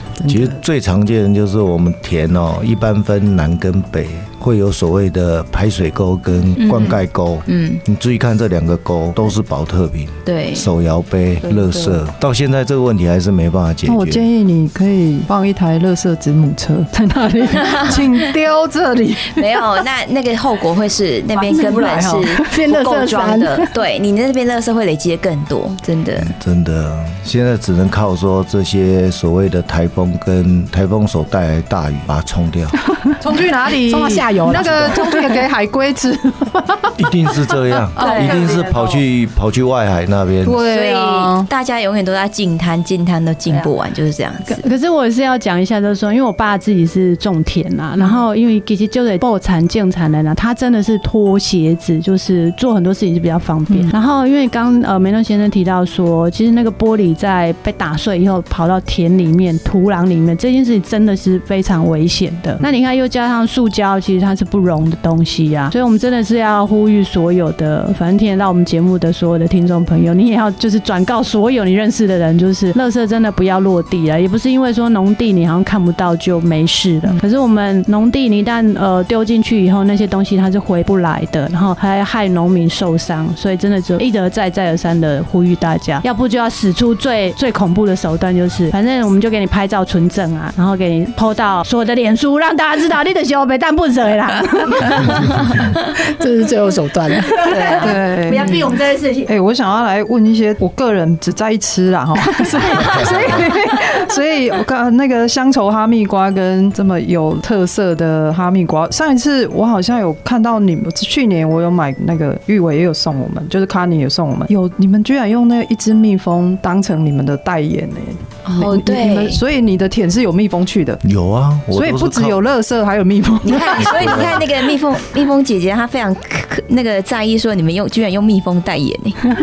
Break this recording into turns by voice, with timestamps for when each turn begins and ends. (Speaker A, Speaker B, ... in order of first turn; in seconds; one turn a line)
Speaker A: 0.2-0.6
Speaker B: 0.3-14.3
Speaker C: 6.6-7.8
Speaker C: 10.2-10.7
Speaker D: 11.4-12.0
Speaker D: 13.9-19.6
Speaker C: 17.6-18.0
Speaker C: 19.3-26.3
Speaker D: 21.4-22.4
Speaker A: 22.5-23.7
Speaker B: 26.2-32.8
Speaker D: 33.2-37.0
Speaker A: 33.9-35.2
Speaker B: 34.6-35.0
Speaker B: 37.0-40.6
Speaker D: 38.0-39.0
Speaker C: 38.0-38.4
Speaker D: 40.4-41.5
Speaker C: 40.6-44.6
Speaker E: 44.5-95.6
Speaker A: 96.0-97.8
Speaker E: 97.5-99.3
Speaker C: 97.5-98.7
Speaker D: 97.8-98.8
Speaker D: 99.3-121.0
Speaker C: 118.5-119.4
Speaker B: 121.0-122.4
Speaker D: 121.7-124.4
Speaker C: 123.4-129.2
Speaker B: 123.7-124.4